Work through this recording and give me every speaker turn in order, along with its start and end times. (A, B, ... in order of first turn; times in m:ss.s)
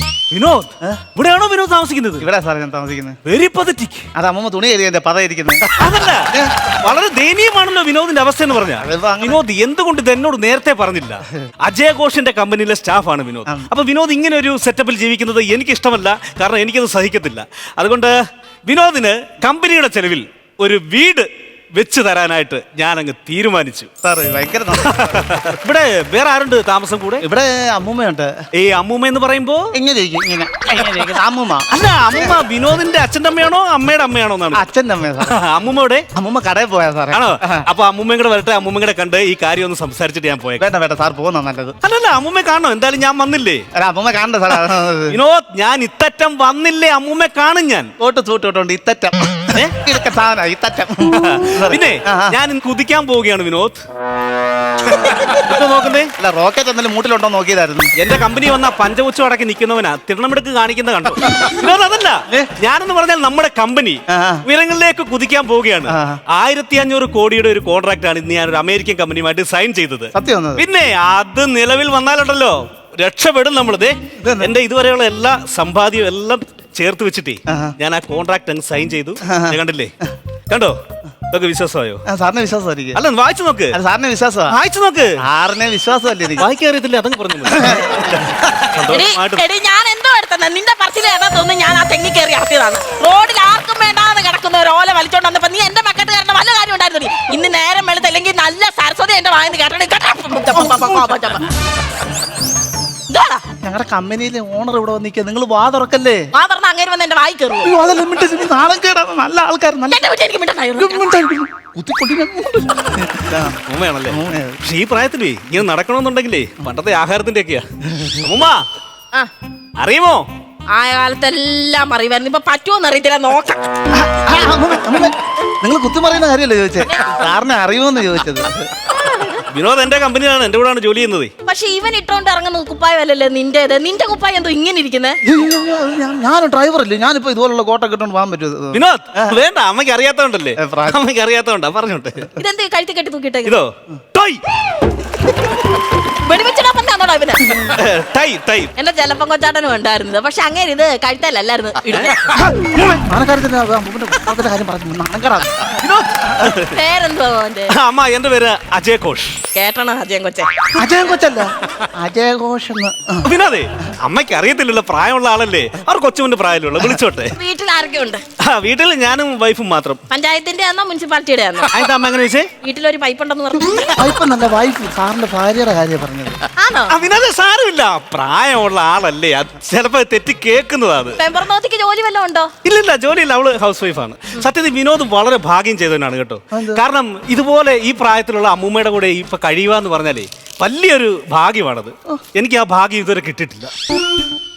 0:00.3-0:02.3 A
0:02.2-0:03.2 B
0:03.2-0:04.1 A
0:04.1-0:05.7 B
0:05.8-0:06.3 A
0:06.8-0:23.9 A
0:08.8-0:09.4 B
0:24.0-0:25.4 B
0:24.8-0:27.2 A
0:27.2-0:28.4 B
0:28.6-0:29.7 A
0:29.7-0:31.7 B
0:31.7-0:34.6 A
0:34.5-0:35.4 B
0:35.2-0:36.0 A
0:36.1-0:37.6 B
0:37.1-0:40.6 A
0:40.6-0:41.8 B
0:41.8-0:43.6 A
0:43.7-0:45.2 B
0:45.1-0:47.9 A
0:48.0-0:52.4 B
0:51.1-0:53.8 A
0:54.9-0:56.1 A
0:56.2-0:57.9 B
0:58.0-1:19.9 A
1:04.1-1:04.4 B
1:05.9-1:06.2 B
1:10.1-1:10.6 B
1:14.2-1:14.5 B
1:17.5-1:17.7 B
1:19.2-1:19.6 B
1:20.5-1:20.8 A
1:21.3-1:22.0 A
1:22.1-1:23.0 B
1:22.9-1:23.8 A
1:23.7-1:24.6 B
1:24.5-1:25.2 A
1:25.2-1:26.5 B
1:26.4-1:29.4 A
1:27.5-1:27.9 B
1:28.8-1:41.4 C
1:40.6-1:41.0 B
1:43.1-1:43.4 C
1:43.6-1:46.3 B
1:46.3-1:47.7 C
1:47.6-1:50.0 B
1:49.9-1:51.1 C
1:50.8-1:53.6 B
1:53.7-1:57.6 A
1:54.1-1:54.6 B
1:57.9-1:58.1 B
1:58.2-1:58.6 A
1:59.8-2:00.2 A
2:00.7-2:03.6 C
2:03.9-2:08.7 B
2:08.9-2:09.4 C
2:09.5-2:11.3 A
2:11.4-2:15.2 C
2:15.2-2:19.4 B
2:18.7-2:22.3 A
2:20.6-2:21.0 B
2:22.4-2:23.6 C
2:23.4-2:24.4 A
2:26.2-2:27.6 C
2:27.7-2:28.7 A
2:28.8-2:32.1 C
2:32.2-2:36.5 B
2:35.8-2:36.7 A
2:36.7-2:37.7 C
2:37.7-2:39.4 A
2:39.5-2:40.5 C
2:40.8-2:43.3 B
2:43.2-2:47.3 A
2:47.3-2:48.2 C
2:48.4-2:50.0 A
2:50.1-2:51.7 C
2:51.7-2:52.5 A
2:52.6-2:54.0 C
2:53.9-2:56.4 B
2:56.6-2:56.9 C
2:56.9-3:01.2 A
3:01.2-3:02.5 C
3:02.6-3:13.7 A
3:06.5-3:06.8 B